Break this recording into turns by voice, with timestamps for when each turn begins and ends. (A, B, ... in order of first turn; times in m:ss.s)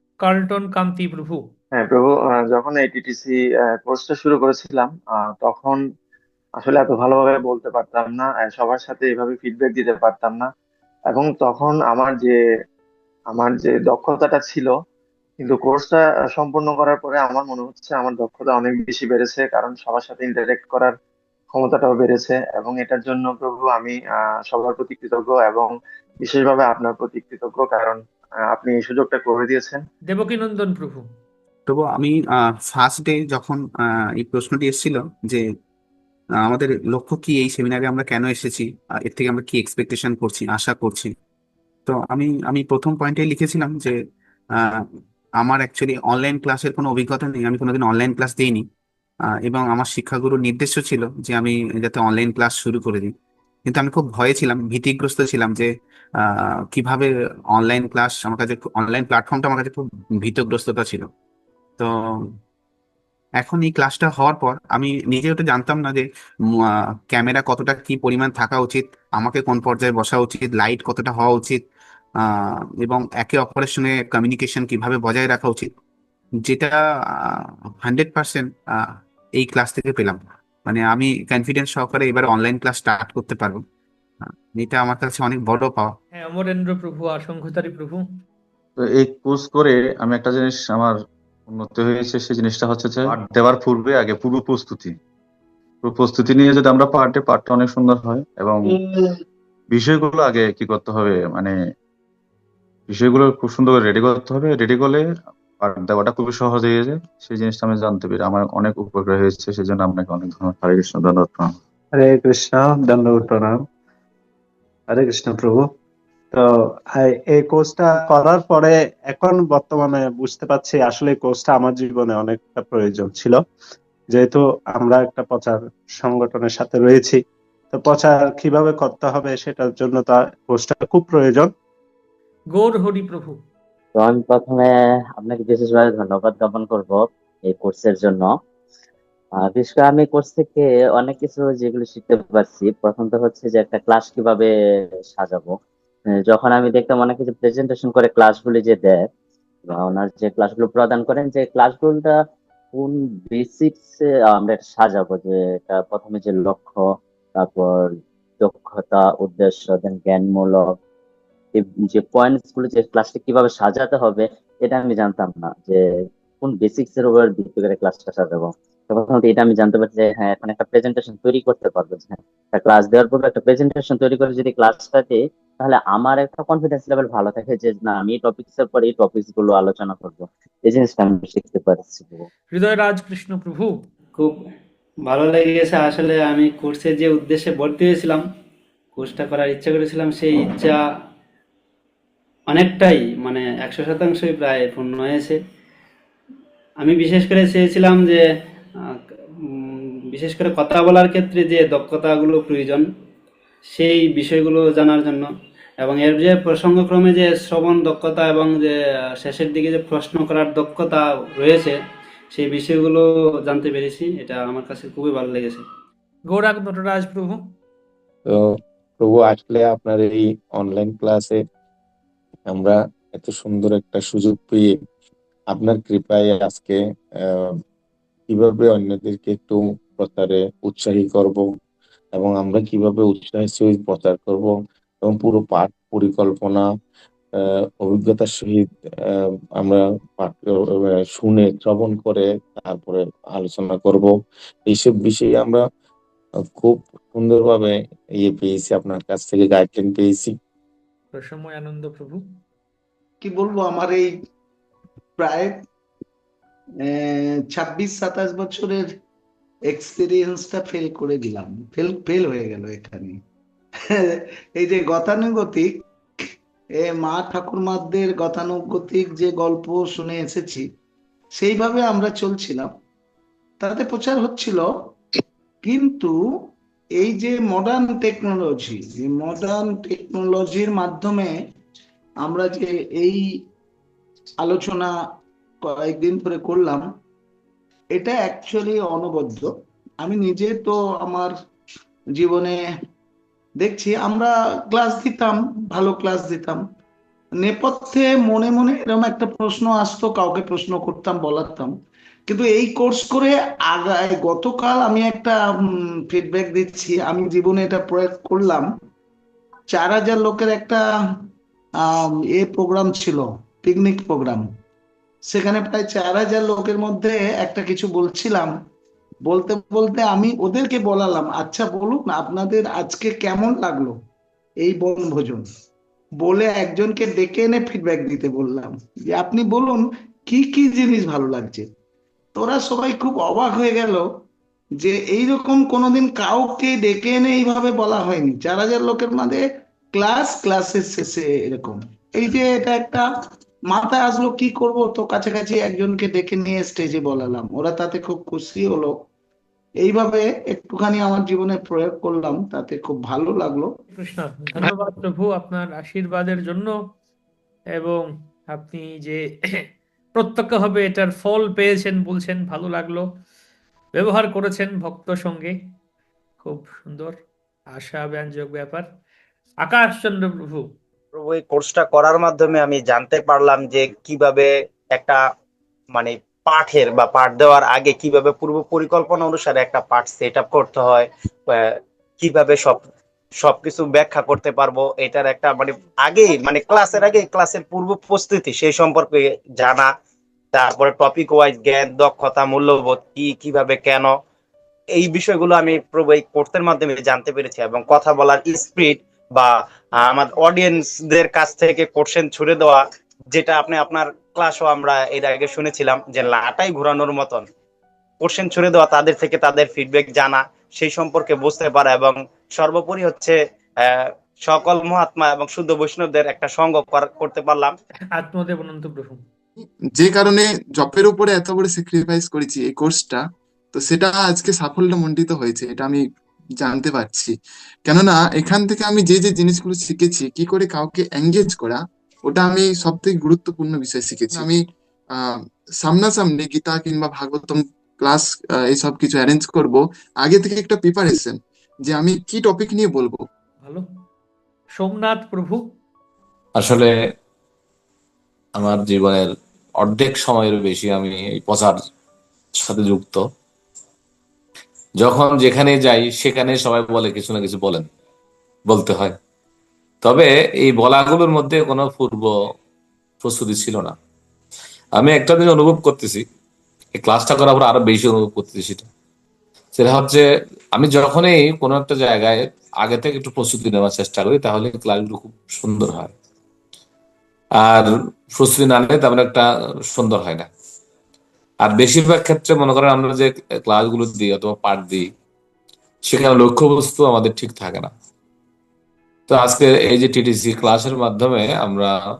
0:00.2-0:01.4 A
0:01.8-0:05.8 B
0:06.6-0:10.5 B
0:11.1-0:12.3 B
0:13.3-0:14.7 B
0:15.4-0:20.9 B
0:21.5-0:25.7 B
0:26.2-0:28.0 B
0:28.5-0:29.8 B
0:30.0-0:31.1 A
0:31.7-0:35.4 C
0:36.4-0:41.1 C
0:41.9-0:43.9 C
0:45.4-0:48.6 C
0:49.4-0:53.1 C
0:53.7-0:55.7 C
0:56.2-1:01.1 C
1:03.4-1:06.0 C
1:06.6-1:11.6 C
1:12.2-1:15.7 C
1:16.4-1:18.8 C
1:19.4-1:23.6 C
1:24.5-1:25.9 C
1:26.1-1:28.0 A
1:28.8-1:35.0 D
1:35.8-1:38.8 D
1:39.7-1:41.6 D
1:42.9-1:45.1 D
1:45.6-1:51.5 D
1:51.9-1:53.6 E
1:54.9-1:55.7 E
1:56.3-2:03.4 E
2:04.1-2:11.5 E
2:12.5-2:13.4 A
2:14.0-2:18.3 F
2:19.4-2:24.5 F
2:25.1-2:25.5 F
2:26.1-2:29.0 F
2:29.7-2:32.1 F
2:32.7-2:36.8 F
2:37.4-2:37.9 F
2:38.4-2:40.8 F
2:41.5-2:45.8 F
2:46.4-3:02.2 F
3:02.5-3:03.7 A
3:05.1-3:08.2 G
3:09.0-3:10.8 G
3:12.5-3:15.4 G
3:16.8-3:18.2 G
3:19.6-3:22.8 G
3:23.7-3:25.2 G
3:25.8-3:31.8 G
3:32.3-3:35.6 G
3:36.3-3:37.4 A
3:39.0-3:41.4 H
3:42.5-3:44.8 H
3:45.5-3:47.5 H
3:48.3-3:51.5 H
3:52.2-3:56.6 H
3:57.8-4:04.1 H
4:04.6-4:05.6 H
4:06.6-4:10.3 H
4:11.1-4:12.2 A
4:13.2-4:14.1 I
4:15.2-4:15.6 I
4:16.8-4:18.9 I
4:19.7-4:23.2 I
4:24.1-4:25.7 I
4:26.8-4:30.6 I
4:31.4-4:32.7 I
4:33.6-4:34.7 I
4:35.6-4:36.1 I
4:37.0-4:41.3 I
4:42.2-4:43.2 I
4:44.4-4:44.9 I
4:45.6-4:46.8 I
4:47.9-4:49.5 I
4:50.0-4:51.3 I
4:52.2-4:52.6 I
4:53.6-4:56.6 I
4:57.4-5:01.7 I
5:02.3-5:05.4 I
5:06.1-5:08.6 I
5:09.7-5:10.8 I
5:12.3-5:14.5 I
5:15.3-5:18.5 I
5:19.2-5:23.9 I
5:24.6-5:25.4 I
5:26.2-5:31.6 I
5:32.3-5:34.0 I
5:34.8-5:43.0 I
5:43.7-5:49.0 I
5:49.8-5:53.7 I
5:53.9-5:56.8 A
5:57.8-5:59.6 A
6:00.1-6:03.0 A
6:03.9-6:05.5 A
6:06.4-6:07.2 A
6:07.7-6:08.8 A
6:09.6-6:10.7 A
6:11.2-6:15.2 J
6:16.0-6:21.0 J
6:22.2-6:22.8 J
6:23.4-6:29.8 J
6:30.5-6:34.1 J
6:35.0-6:39.5 J
6:40.1-6:42.8 J
6:43.4-6:47.4 J
6:48.2-6:53.3 J
6:54.4-6:57.7 J
6:58.1-6:59.2 A
6:59.6-7:03.2 K
7:03.7-7:06.0 K
7:06.6-7:07.3 K
7:07.8-7:14.6 K
7:15.1-7:23.2 K
7:24.7-7:25.6 A
7:26.6-7:26.9 L
7:28.6-7:31.8 L
7:32.6-7:33.2 L
7:35.0-7:37.8 L
7:38.7-7:39.1 L
7:40.0-7:42.3 L
7:43.2-7:43.9 L
7:45.0-7:46.2 L
7:47.0-7:48.8 L
7:49.7-7:50.2 L
7:50.7-7:56.1 L
7:57.6-8:00.5 L
8:01.6-8:05.1 L
8:06.0-8:07.9 L
8:09.3-8:11.9 L